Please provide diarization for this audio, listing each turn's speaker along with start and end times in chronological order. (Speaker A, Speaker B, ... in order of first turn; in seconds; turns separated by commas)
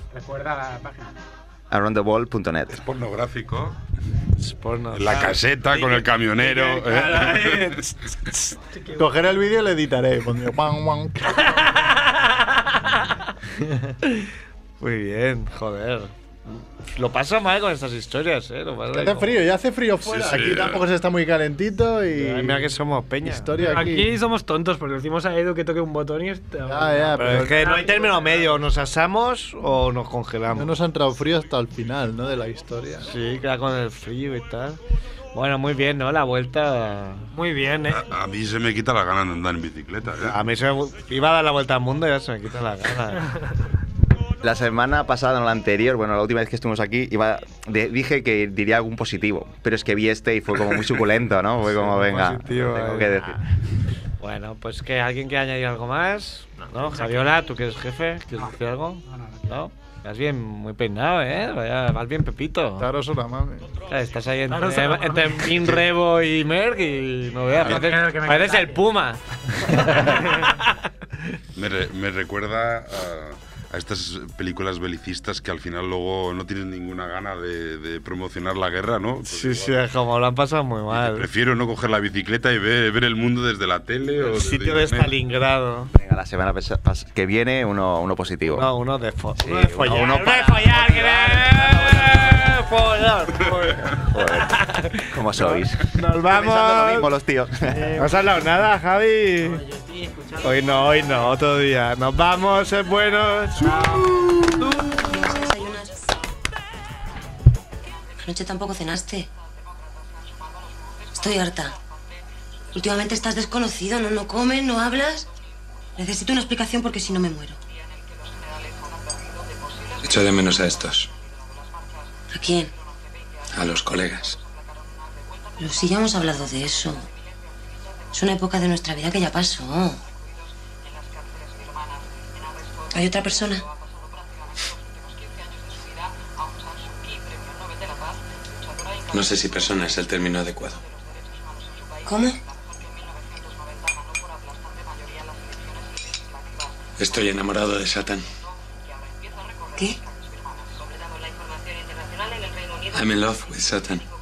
Speaker A: 0.1-1.1, Speaker B: 1.7-2.8, Speaker C: 2.7-3.8, Speaker D: 4.4-8.6, Speaker C: 4.9-7.8, Speaker E: 8.8-9.1, Speaker F: 8.9-11.8, Speaker D: 11.8-13.2, Speaker F: 13.6-13.9, Speaker D: 14.8-19.4, Speaker F: 18.9-22.7, Speaker C: 20.1-20.9, Speaker D: 22.1-23.5, Speaker F: 23.2-24.2, Speaker E: 23.6-28.6, Speaker F: 26.7-27.8, Speaker D: 27.2-30.8, Speaker F: 30.6-33.1, Speaker D: 33.0-34.8, Speaker D: 35.3-37.3, Speaker E: 37.3-38.1, Speaker C: 37.9-40.4, Speaker D: 40.2-43.3, Speaker B: 44.4-53.4, Speaker D: 51.6-53.3, Speaker D: 54.2-62.9, Speaker A: 58.4-59.6, Speaker F: 62.8-63.7, Speaker D: 63.9-70.8, Speaker E: 64.5-65.6, Speaker A: 67.6-69.1, Speaker A: 69.7-70.1, Speaker C: 71.6-79.9, Speaker D: 79.2-81.3, Speaker C: 80.9-85.2, Speaker D: 84.2-85.9, Speaker B: 85.9-88.7, Speaker D: 88.5-97.1, Speaker B: 89.4-91.6, Speaker A: 89.9-92.4, Speaker B: 94.1-97.8, Speaker D: 98.0-99.6, Speaker A: 99.4-101.3, Speaker D: 100.4-104.7, Speaker A: 103.6-104.4, Speaker G: 104.9-106.0, Speaker G: 108.2-109.3, Speaker G: 111.2-111.8, Speaker G: 112.8-115.3, Speaker G: 116.0-117.6, Speaker H: 120.0-121.1, Speaker G: 122.3-122.7, Speaker H: 123.5-124.4, Speaker G: 125.6-127.0, Speaker G: 128.1-130.0, Speaker G: 132.9-133.6, Speaker H: 139.1-140.8, Speaker G: 142.1-142.4, Speaker H: 147.0-148.2, Speaker H: 152.9-154.0